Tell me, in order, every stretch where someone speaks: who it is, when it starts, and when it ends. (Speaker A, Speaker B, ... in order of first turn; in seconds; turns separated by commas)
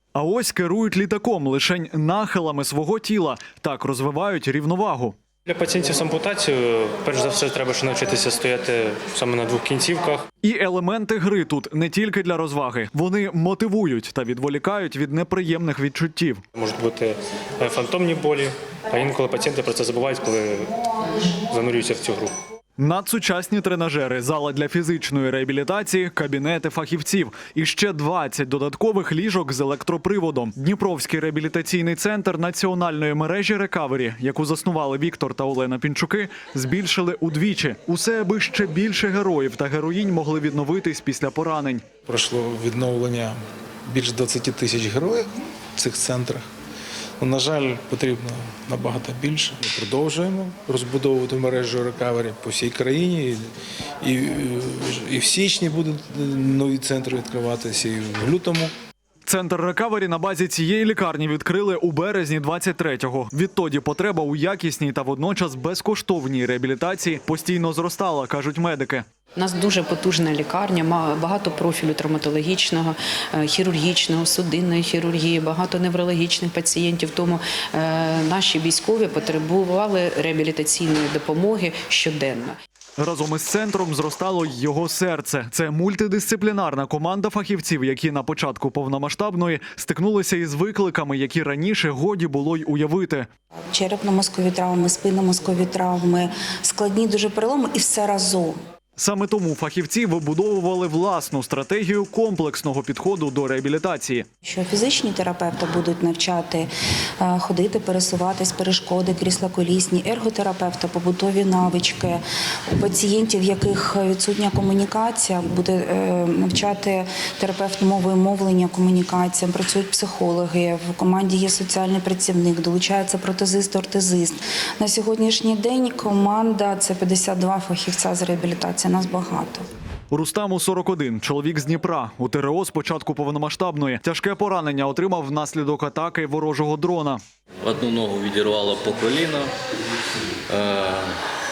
Speaker A: 0.1-5.2, Speaker B: 5.5-10.2, Speaker A: 10.4-16.4, Speaker B: 16.5-22.3, Speaker A: 22.8-41.9, Speaker C: 42.0-46.5, Speaker C: 47.2-53.5, Speaker C: 54.0-58.7, Speaker A: 59.2-69.0, Speaker D: 69.3-82.6, Speaker A: 83.0-93.3, Speaker E: 93.7-98.6, Speaker A: 99.0-104.2, Speaker E: 104.4-129.6, Speaker A: 130.1-137.2, Speaker F: 137.6-139.5, Speaker F: 140.5-141.2